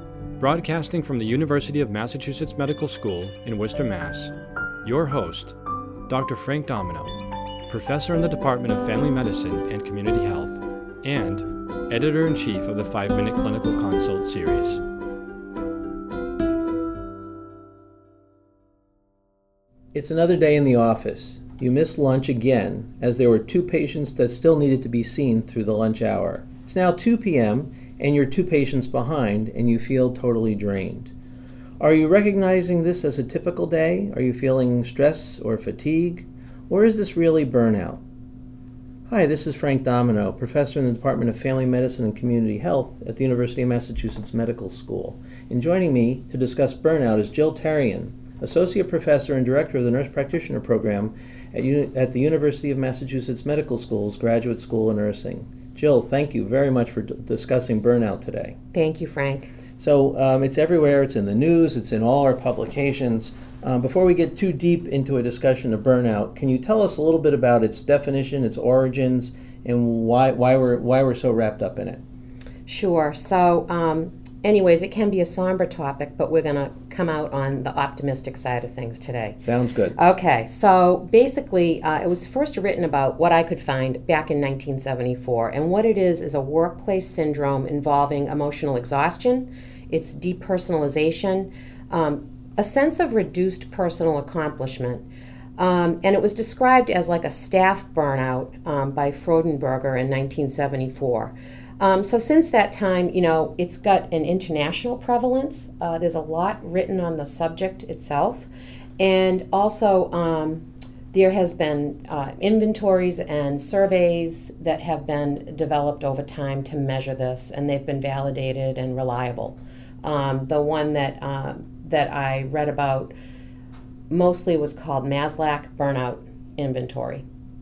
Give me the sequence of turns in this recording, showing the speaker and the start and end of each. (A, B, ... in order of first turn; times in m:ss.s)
0:00.4-0:05.6 A
0:06.1-0:07.1 A
0:07.7-0:14.8 A
0:19.9-0:31.1 B
0:31.8-0:38.0 B
0:39.1-0:58.6 B
0:58.7-0:59.5 C
0:59.8-1:12.0 B
1:12.6-1:19.4 C
1:19.4-1:20.0 B
1:20.0-1:35.0 C
1:35.6-2:03.1 C
2:04.1-2:07.2 C